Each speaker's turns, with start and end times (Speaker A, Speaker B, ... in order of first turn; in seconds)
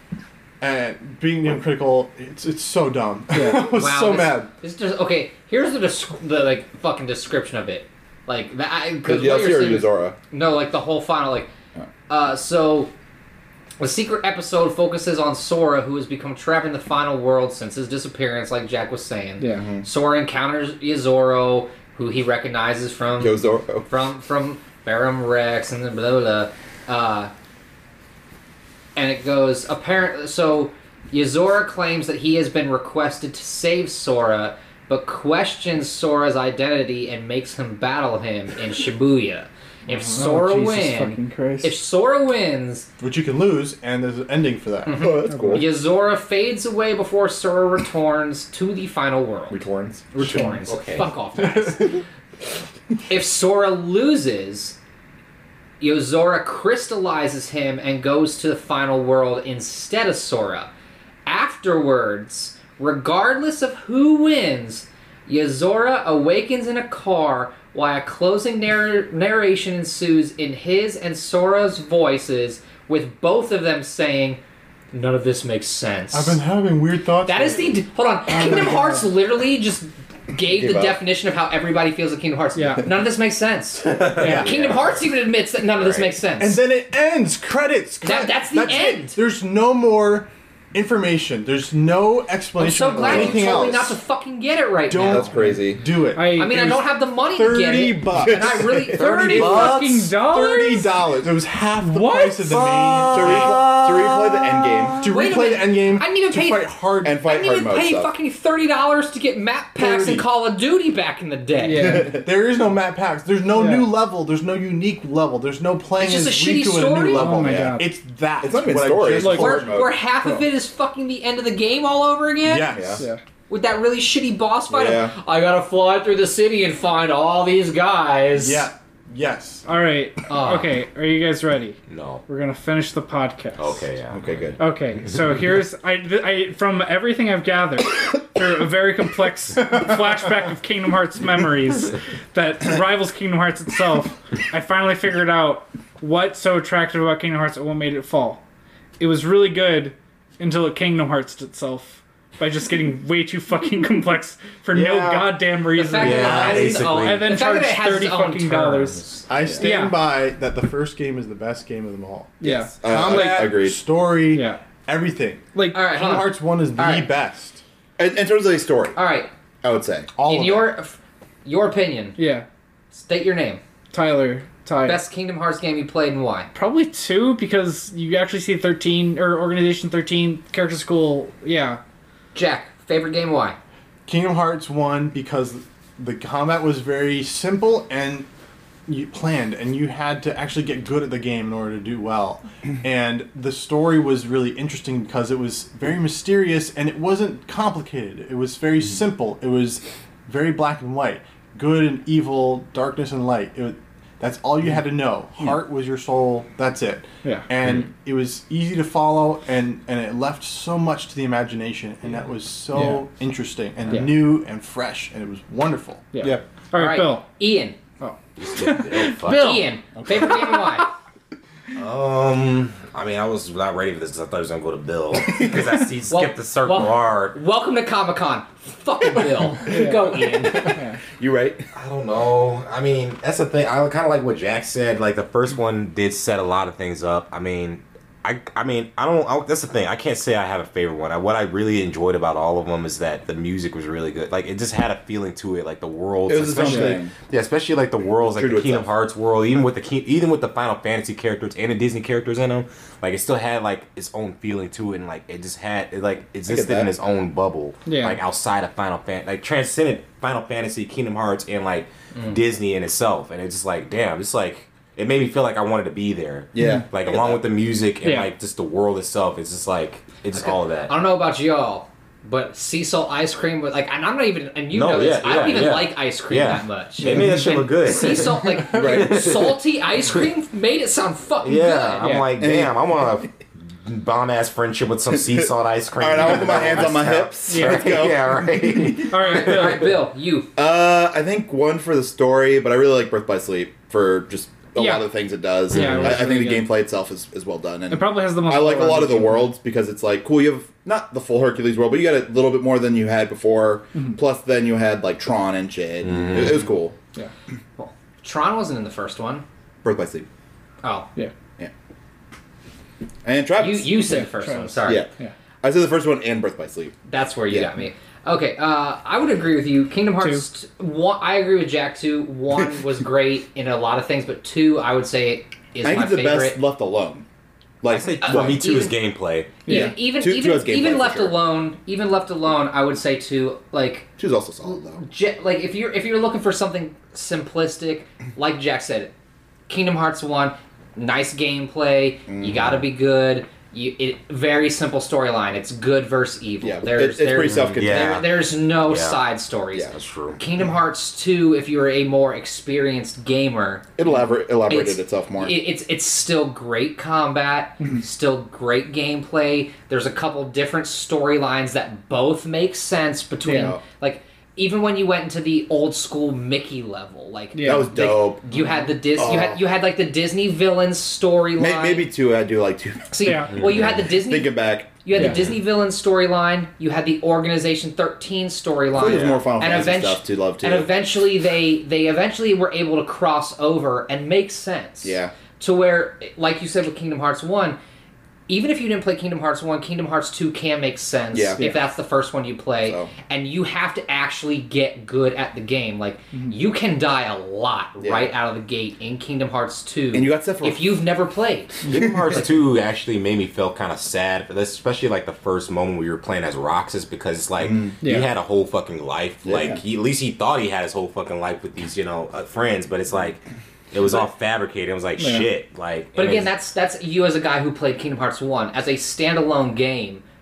Speaker A: 0.6-4.5, 43.0-45.1, 51.4-52.0, 76.1-77.8, 78.4-78.7, 84.2-84.5, 86.4-94.0, 94.9-104.2, 105.0-107.2, 109.8-110.2, 112.2-119.8, 122.4-123.1, 128.3-129.7, 156.2-156.9, 159.3-167.6, 170.2-170.7, 184.1-188.3, 188.9-216.1
Speaker B: 3.3-3.6, 19.4-19.7, 40.1-41.8, 45.3-45.6, 78.3-79.0, 82.5-82.8, 84.2-84.5, 96.1-96.8, 99.0-101.0, 101.8-103.6, 111.6-112.1, 113.5-113.9, 117.1-117.9, 119.2-119.6, 120.2-120.5, 129.7-133.9, 134.6-148.4, 149.0-159.0, 159.6-160.0, 162.4-163.5, 164.3-164.6, 165.5-165.8, 172.2-172.5, 173.9-175.0, 176.5-181.8, 213.9-214.2, 216.1-217.3, 218.0-219.2, 229.7-230.1, 230.7-231.0, 246.6-247.0, 257.9-258.2, 268.0-268.3, 277.0-277.5, 287.5-287.9, 289.0-289.9, 294.8-295.1, 295.7-296.7, 297.9-299.5, 314.1-315.3, 320.2-320.4, 329.6-330.0, 363.4-363.7, 367.5-367.9, 373.2-373.5, 375.2-375.4, 391.6-391.8, 408.0-408.3, 415.2-415.5
Speaker C: 3.4-11.5, 12.1-12.9, 13.8-27.3, 29.0-42.9, 44.9-49.6, 50.1-52.0, 53.1-54.8, 55.8-60.7, 61.3-74.4, 74.9-76.4, 77.2-86.6, 88.0-89.2, 92.6-95.3, 96.2-99.8, 105.0-112.0, 116.0-117.4, 119.2-122.8, 123.5-128.7, 130.3-130.8, 155.7-159.3, 165.7-167.1, 168.9-169.3, 170.2-172.2, 172.9-173.6, 174.8-176.5, 182.3-183.6, 216.8-217.8, 219.2-220.9, 226.1-230.8, 262.1-262.4, 270.3-282.3, 289.1-290.5, 307.8-309.4, 310.8-311.1, 313.6-315.1, 317.1-326.6, 328.0-329.0, 329.6-334.1, 335.0-339.1, 339.7-354.0, 354.7-372.1, 373.1-387.8, 388.5-402.5, 416.1-420.2
Speaker D: 9.1-10.2, 19.5-19.9, 23.2-23.9, 45.0-45.7, 49.5-50.1, 80.5-81.0, 92.9-93.9, 95.0-95.8, 98.2-99.9, 103.1-105.0, 107.0-108.1, 111.8-112.2, 117.3-117.8, 118.4-120.0, 122.7-123.0, 124.7-125.1, 134.1-134.6, 154.8-155.3, 159.4-159.7, 162.8-163.8, 168.0-169.0, 169.6-170.1, 212.7-213.0, 231.2-231.7, 246.3-247.2, 248.3-248.9, 256.5-256.9, 266.5-267.4, 278.7-279.3, 282.4-283.1, 285.3-289.1, 290.6-307.0, 309.8-310.3, 313.2-314.0, 315.6-317.0, 325.8-327.3, 327.8-328.8, 330.2-331.4, 334.2-335.0, 342.3-342.7, 346.6-348.2, 354.0-355.6, 363.5-363.8, 367.6-369.6, 371.6-375.0, 378.9-380.9, 385.0-385.4, 391.3-391.6, 392.8-393.1, 398.0-398.3, 400.1-400.9, 407.6-407.9, 409.4-409.8
Speaker E: 50.7-51.1, 83.9-85.0, 85.8-86.2, 102.5-103.0, 131.9-132.2, 133.6-134.6, 156.0-157.4, 218.4-219.7, 221.8-227.4, 231.8-270.9, 274.7-280.3, 281.4-289.2, 295.7-296.3, 306.0-306.6, 327.9-329.7, 347.5-348.3, 348.9-349.2, 349.9-350.4, 401.9-413.4, 413.9-416.5